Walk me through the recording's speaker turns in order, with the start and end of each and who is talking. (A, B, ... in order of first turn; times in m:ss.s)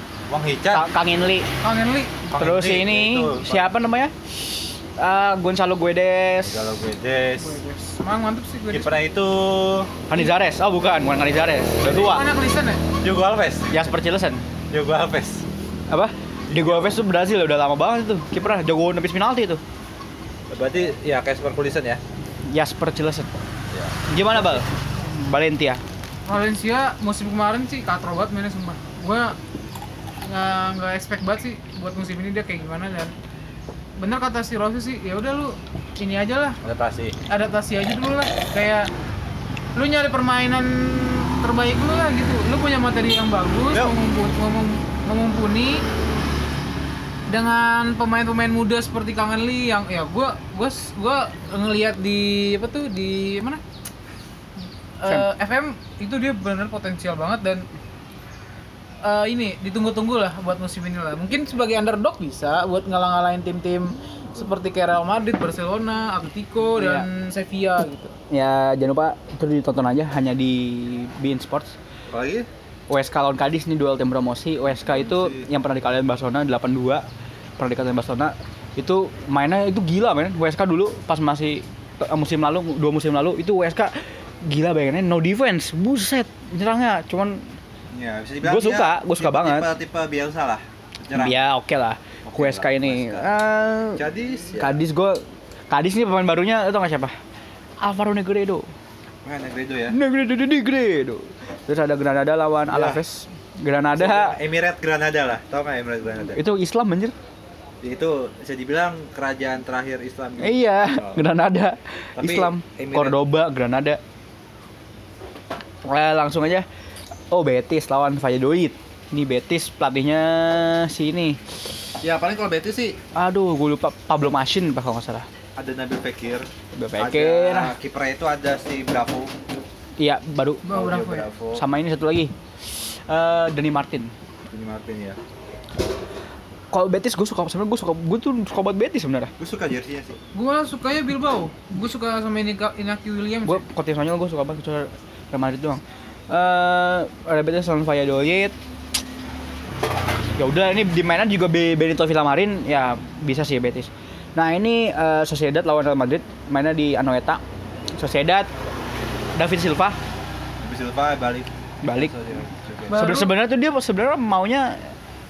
0:00.3-0:00.9 A
0:00.7-0:01.5 B
0:01.6-0:02.2 C
0:02.3-0:03.7 A
0:02.4-0:06.8 B
0:06.4-0:07.6 A
0:07.4-0:08.9 C
0:08.7-0:09.9 A
0:10.1-0:12.2 B
0:11.8-0:12.8 C
0:13.0-0:13.8 A
0:13.7-0:14.4 B
0:14.7-0:15.5 A
0:15.9-0:19.6 B
0:16.5-0:16.9 A
0:20.5-0:22.0 A
0:22.4-0:23.3 B
0:23.7-0:24.6 A
0:24.1-0:25.8 B
0:26.3-0:29.4 C
0:30.2-0:33.1 C
0:34.0-0:36.6 C
0:36.6-0:37.2 A
0:37.3-0:38.9 C
0:39.8-0:45.8 C
0:47.3-0:53.6 C
0:55.0-0:57.6 C
0:59.0-1:08.1 C
1:06.8-1:07.0 B
1:08.3-1:11.8 B
1:12.1-1:12.5 A
1:12.9-1:17.0 B
1:14.8-1:15.4 A
1:17.6-1:27.5 B
1:27.9-1:31.4 A
1:28.4-1:29.7 B
1:31.1-1:34.0 B
1:32.2-1:33.3 A
1:34.0-1:34.8 A
1:34.6-1:37.1 B
1:37.8-1:38.7 B
1:39.2-1:39.9 A
1:39.9-1:44.4 B
1:42.7-1:43.0 A
1:44.0-1:46.4 A
1:46.3-1:47.1 B
1:47.8-1:51.2 A
1:50.4-1:54.0 B
1:52.2-1:53.1 A
1:55.8-1:56.6 B
1:57.3-2:01.4 B
2:02.0-2:03.0 A
2:03.1-2:05.2 B
2:05.6-2:09.3 A
2:06.7-2:07.7 B
2:10.0-2:10.6 B
2:10.6-2:11.3 C
2:10.7-2:11.6 A
2:11.6-2:14.1 B
2:14.5-2:15.2 A
2:16.7-2:19.3 B
2:19.4-2:20.2 A
2:20.3-2:23.6 C
2:23.4-2:28.5 B
2:30.4-2:37.4 B
2:38.0-2:38.5 B
2:39.3-2:40.0 B
2:40.6-2:43.0 A
2:41.8-2:42.1 B
2:42.9-2:43.3 C
2:42.9-2:44.9 B